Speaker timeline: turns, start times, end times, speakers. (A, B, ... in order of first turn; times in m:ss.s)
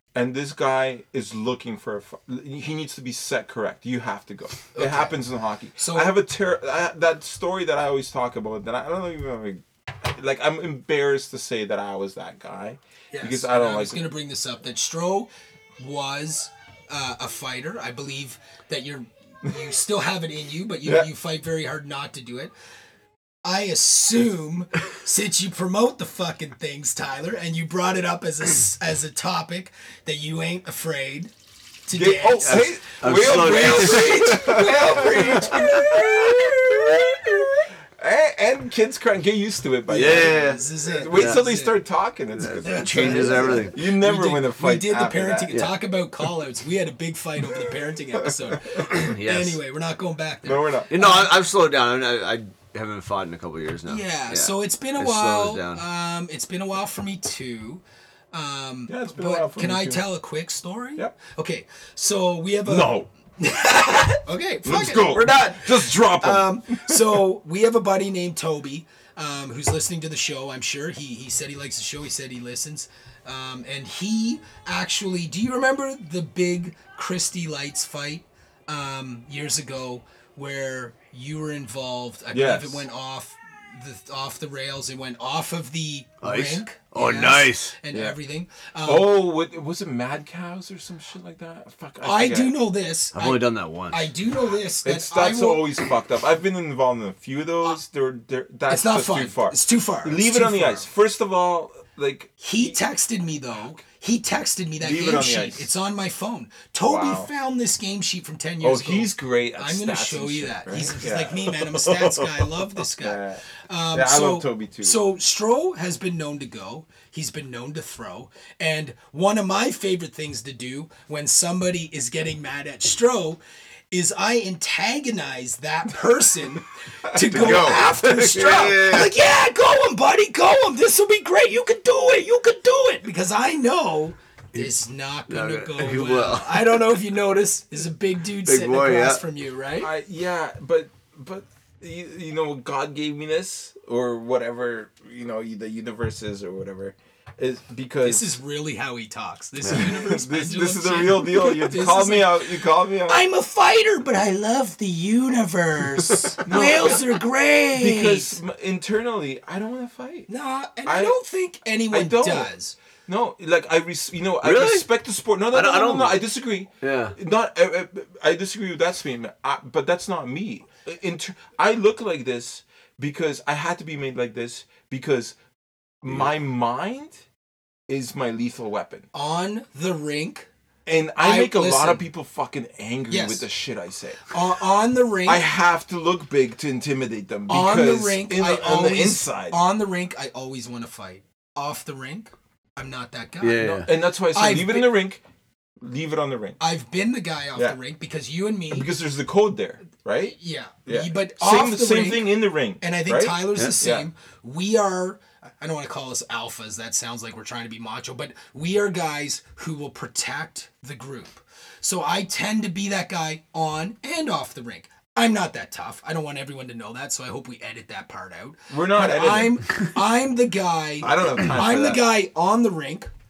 0:00.1-0:14.0 A
0:04.7-0:05.2 B
0:05.8-0:06.1 B
0:13.1-0:22.5 B
0:23.4-0:31.3 B
0:31.8-0:37.0 B
0:31.9-0:45.5 A
0:32.4-0:34.4 C
0:35.5-0:35.8 C
0:39.9-0:41.8 B
0:39.9-0:40.6 C
0:41.1-0:41.4 C
0:42.4-0:43.8 C
0:42.6-0:51.4 B
0:48.2-0:48.8 A
0:48.9-0:49.6 C
0:50.4-0:50.9 A
0:50.9-0:55.8 C
0:53.9-0:57.8 B
0:58.3-1:29.1 B
0:58.9-1:00.0 A
1:02.6-1:03.1 A
1:04.6-1:07.2 A
1:22.3-1:22.8 A
1:26.2-1:27.8 C
1:28.8-1:32.5 A
1:32.0-1:35.7 B
1:33.1-1:34.1 C
1:34.8-1:42.8 A
1:38.7-1:40.9 B
1:42.4-2:03.4 B
1:44.8-1:45.7 A
1:46.8-1:47.3 A
1:48.6-1:51.6 A
1:51.9-1:52.2 C
1:53.0-1:55.0 A
2:03.9-2:19.9 B
2:07.1-2:07.8 A
2:07.3-2:09.1 C
2:15.3-2:17.0 C
2:18.4-2:19.2 C
2:19.8-2:28.3 A
2:28.0-2:32.5 B
2:29.7-2:33.2 A
2:33.0-2:38.4 B
2:36.3-2:37.2 A
2:37.7-2:40.3 A
2:40.3-2:42.8 B
2:40.8-2:41.2 A
2:41.9-2:42.5 A
2:43.1-2:55.3 A
2:44.4-2:44.8 C
2:45.5-2:46.2 C
2:46.8-2:47.2 C
2:56.0-2:57.2 A
2:57.9-2:59.1 A
2:59.1-3:00.5 B
3:00.8-3:04.4 A
3:01.2-3:02.0 B
3:03.1-3:03.5 B
3:04.3-3:05.4 B
3:05.2-3:09.6 A
3:07.5-3:13.7 B
3:13.4-3:13.9 C
3:13.6-3:15.2 A
3:14.3-3:14.9 B
3:15.8-3:16.6 A
3:16.6-3:18.9 B
3:18.7-3:24.1 A
3:20.2-3:43.1 B
3:38.7-3:39.6 A
3:41.0-3:42.0 A